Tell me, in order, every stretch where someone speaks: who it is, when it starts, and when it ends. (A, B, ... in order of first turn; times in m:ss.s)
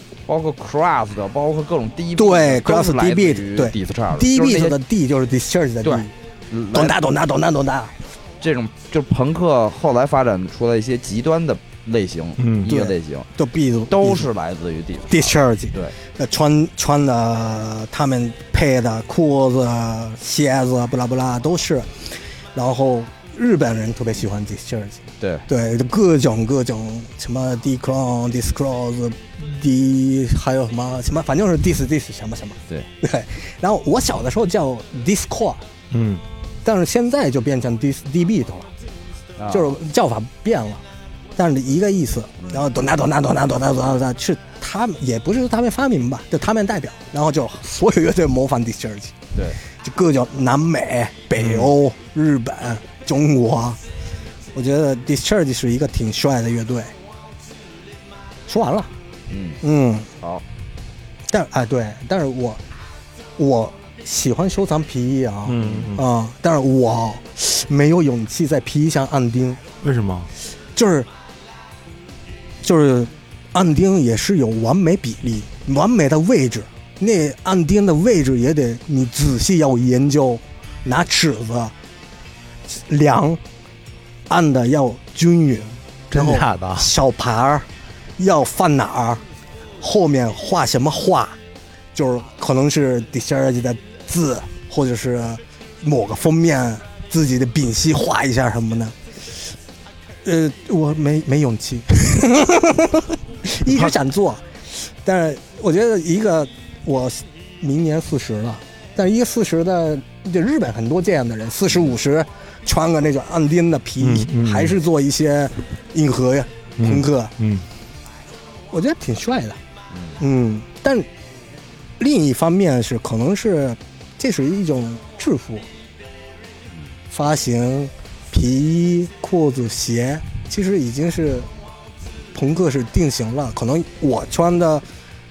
0:00.3-0:04.8 A
0:02.2-0:06.1 B
0:05.8-0:07.0 A
0:06.7-0:07.9 B
0:08.4-0:13.3 A
0:12.4-0:12.7 C
0:12.7-0:14.3 B
0:13.9-0:16.0 A
0:15.1-0:21.9 B
0:22.6-0:35.6 B
0:35.9-0:36.2 C
0:36.6-0:38.7 B
0:39.4-0:39.7 A
0:39.5-0:40.8 B
0:41.4-0:53.8 B
0:51.4-0:51.7 C
0:54.5-0:56.9 B
0:58.5-0:58.9 B
0:59.3-0:59.6 A
0:59.6-1:00.1 B
1:01.3-1:02.6 B
1:03.4-1:09.6 B
1:05.4-1:06.0 C
1:09.8-1:10.3 C
1:10.7-1:11.1 B
1:12.6-1:21.7 B
1:22.7-1:23.4 B
1:24.3-1:27.7 B
1:26.1-1:26.9 C
1:28.2-1:29.2 B
1:29.8-1:31.4 B
1:31.9-1:39.0 B
1:40.2-1:44.4 B
1:43.6-1:43.9 C
1:45.0-1:57.3 B
1:54.0-1:54.8 C
1:56.8-1:57.6 C
1:58.7-1:59.6 B
1:59.9-2:00.2 A
2:00.2-2:01.1 B
2:02.0-2:05.7 B
2:07.1-2:11.5 B
2:12.3-2:14.8 B